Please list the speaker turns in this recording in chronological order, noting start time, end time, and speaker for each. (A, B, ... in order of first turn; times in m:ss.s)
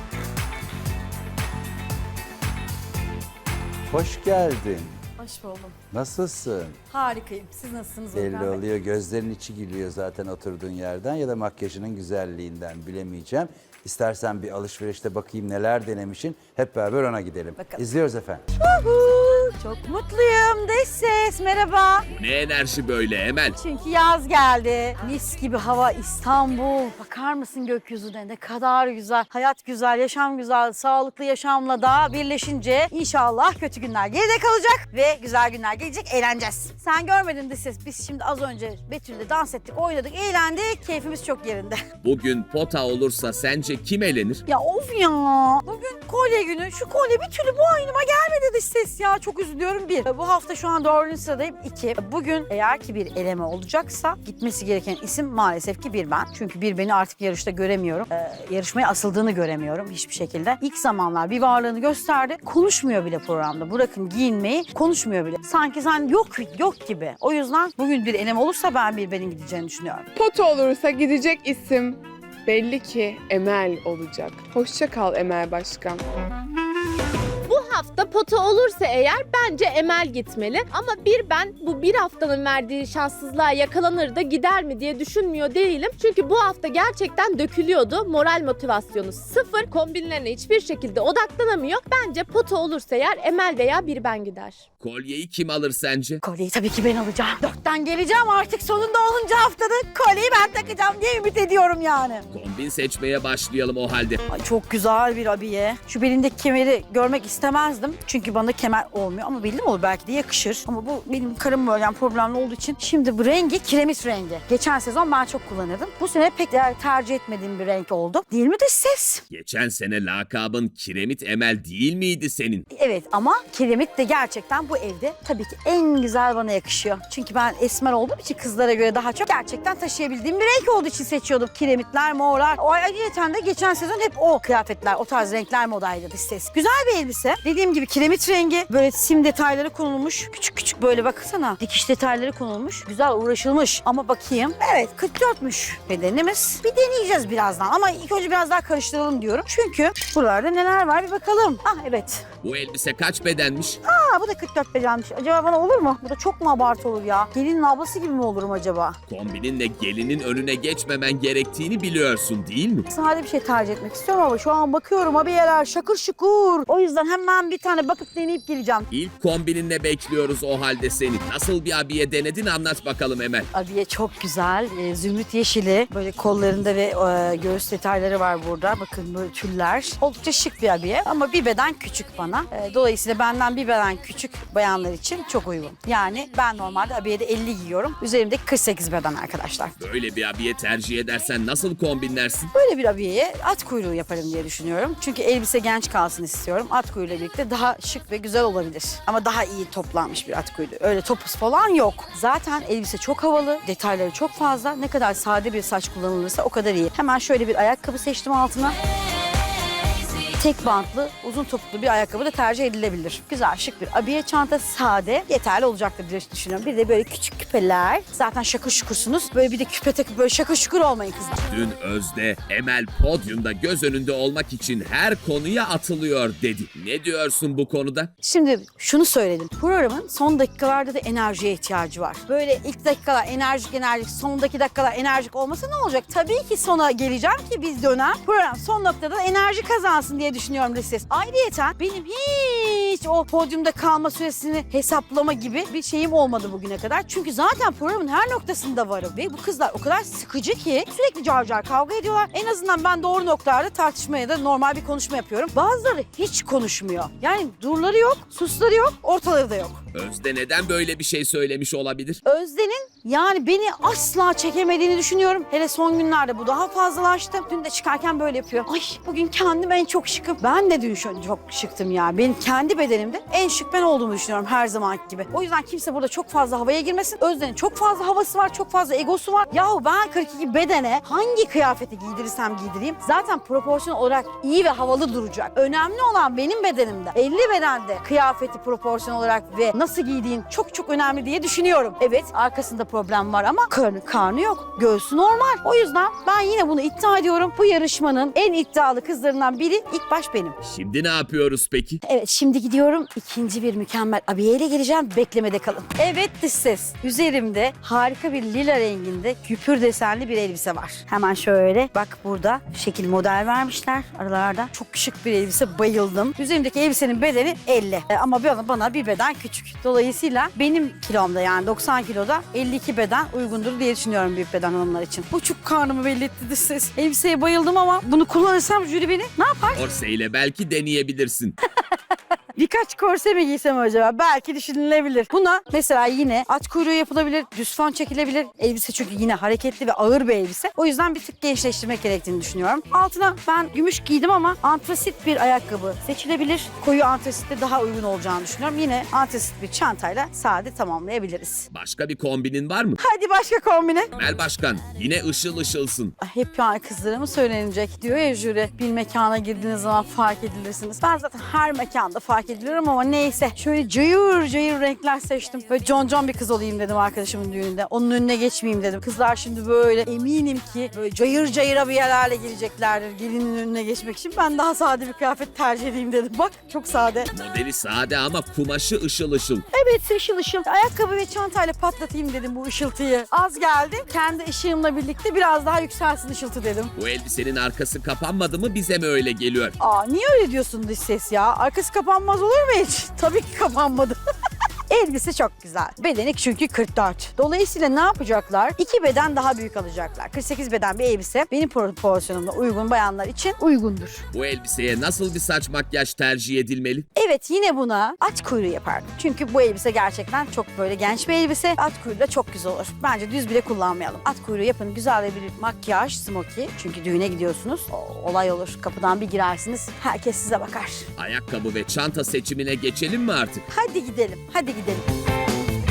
0:03.9-0:04.9 A
0:05.2-0:05.8 B
0:05.9-0:06.8 A
0:06.9-0:08.6 B
0:08.1-0:18.4 A
0:18.6-0:22.0 B
0:22.1-0:23.6 C
0:23.6-0:41.8 B
0:42.0-0:44.4 C
0:44.5-1:10.1 B
1:10.2-1:15.4 D
1:10.9-1:11.7 E
1:13.7-1:16.0 E
1:17.5-1:34.6 E
1:34.8-1:36.2 C
1:36.2-1:42.2 B
1:42.3-1:44.2 C
1:44.3-1:59.2 B
1:59.3-2:02.6 C
2:02.7-2:32.2 B
2:32.4-2:33.8 C
2:33.8-2:39.0 B
2:39.1-2:42.9 C
2:42.9-2:48.9 B
2:48.9-2:53.5 C
2:53.5-3:09.8 B
3:09.8-3:12.5 C
3:12.5-3:28.8 B
3:30.4-3:41.4 B
3:41.5-3:48.1 C
3:48.2-4:19.8 B
4:19.9-4:22.2 C
4:22.2-5:00.6 B
5:00.6-5:02.0 C
5:02.0-5:29.8 B
5:29.7-5:31.6 C
5:32.6-5:51.7 B
5:51.7-5:53.0 C
5:53.0-5:54.1 B
5:54.1-5:56.2 C
5:56.2-6:17.3 B
6:17.3-6:19.7 C
6:19.7-6:26.9 B
6:27.0-6:29.8 C
6:29.8-6:34.2 B
6:34.9-6:44.2 B
6:44.3-6:47.1 C
6:47.2-7:01.1 B
7:01.2-7:03.7 C
7:03.7-7:05.0 B